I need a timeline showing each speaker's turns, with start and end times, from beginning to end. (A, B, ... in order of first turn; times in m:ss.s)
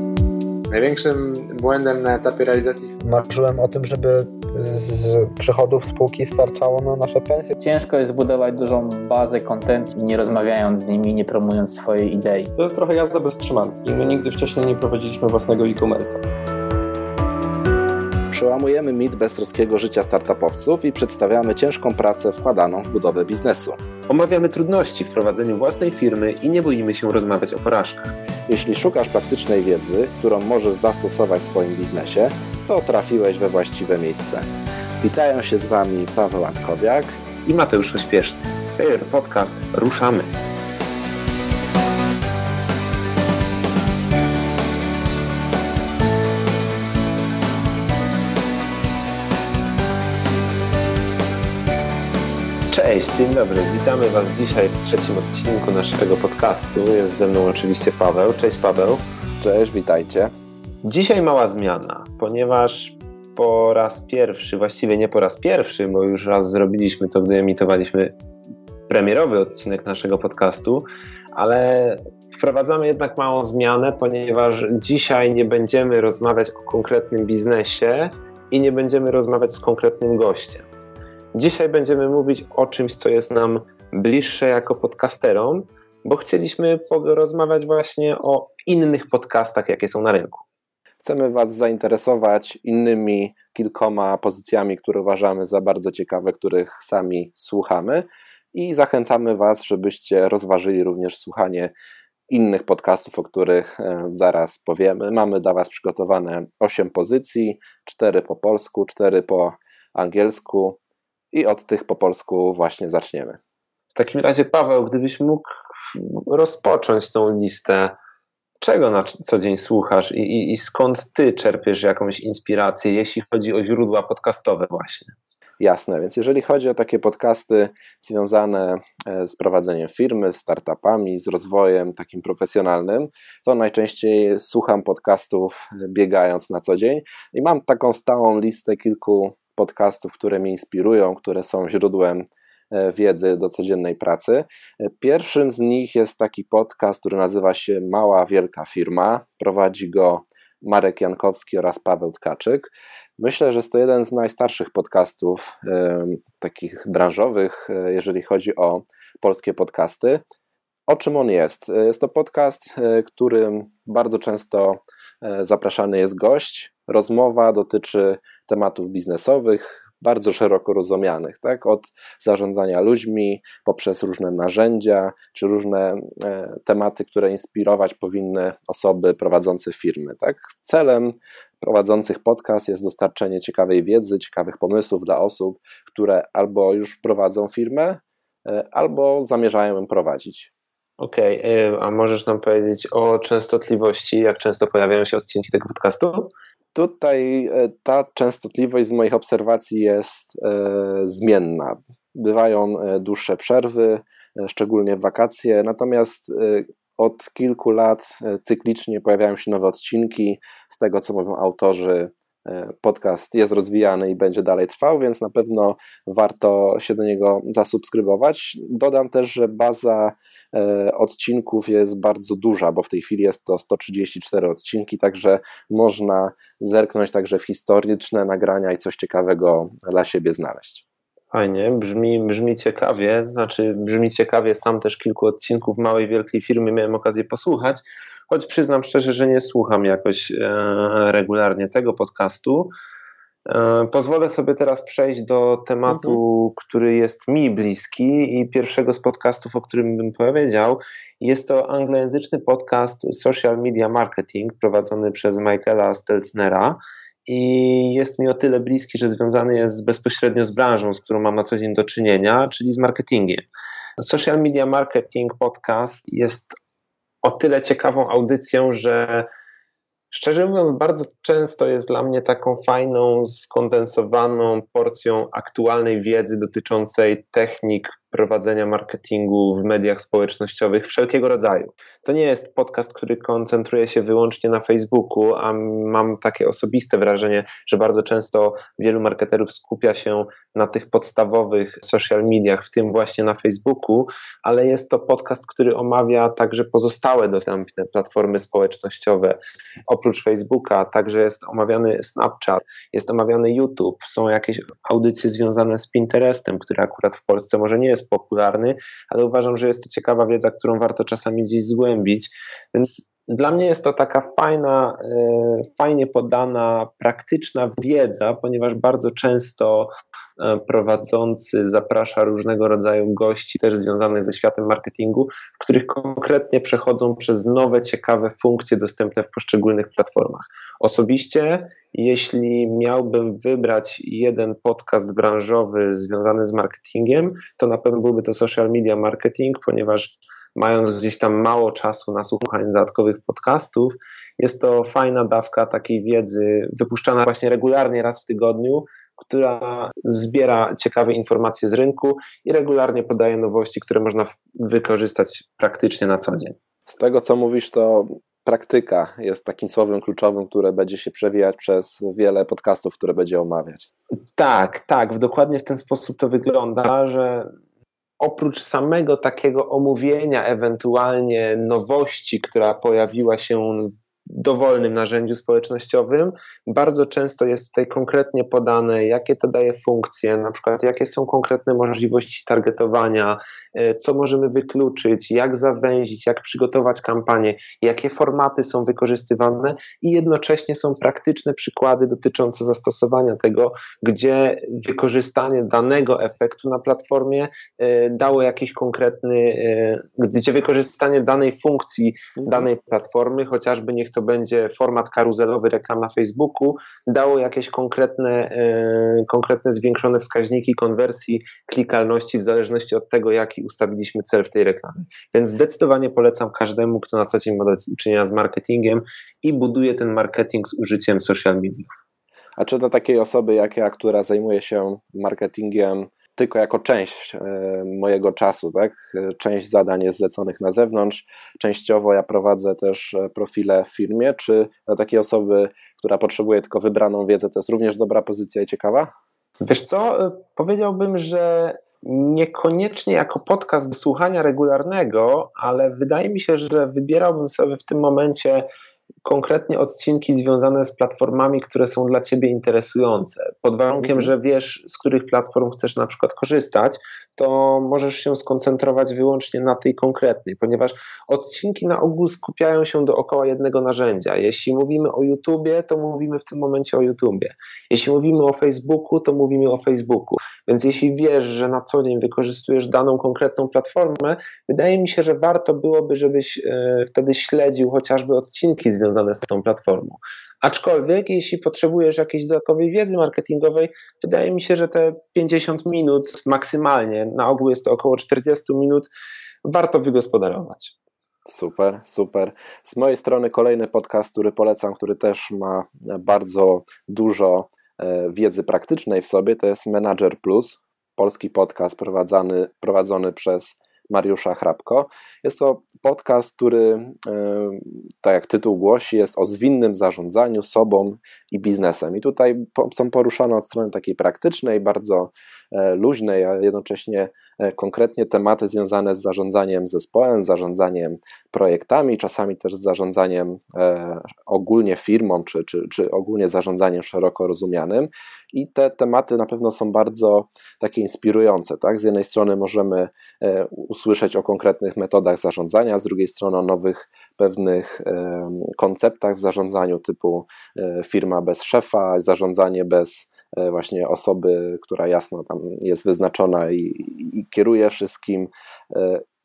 0:00.7-0:03.0 A
0:03.0-0:07.5 B
0:07.6-0:12.5 C
0:12.6-0:16.2 D
0:18.3-0:23.8 E
0:24.1-0:28.2 F
0:28.5-0:34.5 E
0:35.0-0:37.2 E
0:37.4-0:40.3 F
0:52.7-0:59.0 F
0:59.4-1:00.3 E
1:00.8-1:08.2 F
1:08.9-1:20.7 F
1:21.4-1:30.4 F
1:31.0-1:41.7 E
1:42.3-1:50.8 E
1:51.3-1:53.4 E
1:53.9-1:58.0 F
1:58.6-2:05.2 F
2:05.6-2:40.2 E
2:40.9-3:10.5 E
3:11.0-3:16.3 F
3:16.8-3:50.8 E
3:51.3-4:02.7 F
4:03.5-4:23.5 F
4:24.0-4:26.6 F
4:27.2-4:29.3 F
4:30.1-5:56.6 F
5:56.9-6:03.9 E
6:04.4-6:07.5 F
6:08.2-7:02.0 F
6:42.4-6:42.7 E
7:02.6-7:19.1 E
7:19.6-7:28.7 F
7:29.2-8:09.1 F
7:34.0-7:34.3 E
8:09.6-8:10.9 F
8:11.5-9:09.2 E